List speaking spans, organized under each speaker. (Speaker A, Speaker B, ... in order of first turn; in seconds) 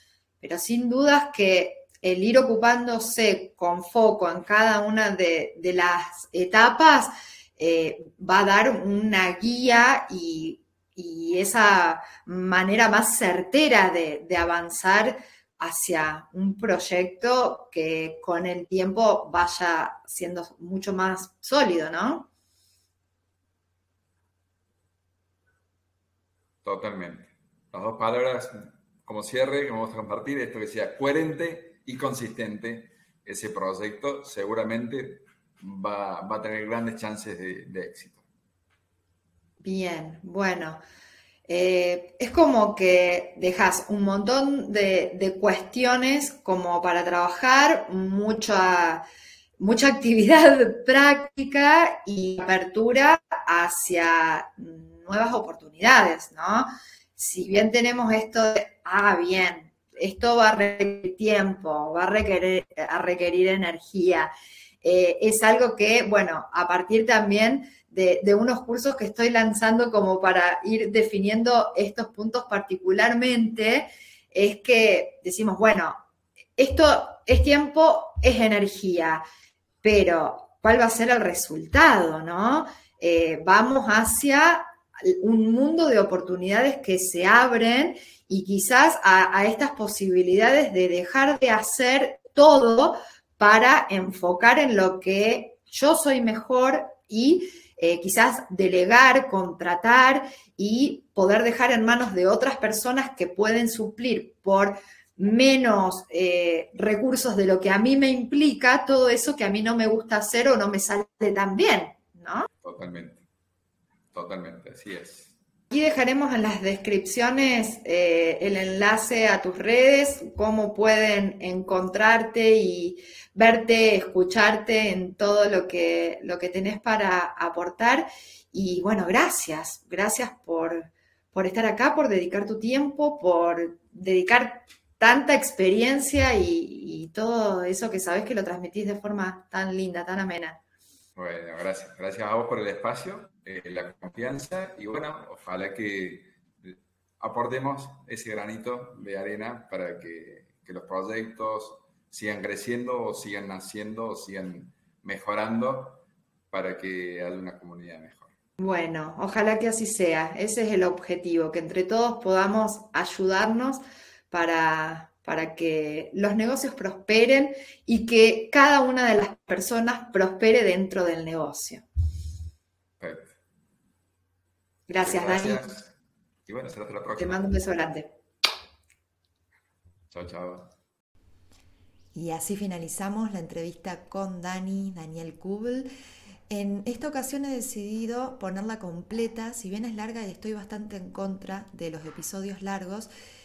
Speaker A: 0.4-22.3, 39.6-40.8, 41.5-49.0, 49.6-64.3, 64.8-76.0, 76.6-79.2, 79.8-112.5, 115.7-140.6, 158.6-171.8, 174.9-175.7, 177.2-178.1
Speaker B: 26.6-38.2, 112.6-113.2, 114.1-115.3, 141.2-158.3, 173.0-173.4, 175.0-175.9, 176.4-177.6, 180.1-180.7
Speaker C: 182.1-185.9, 186.5-193.1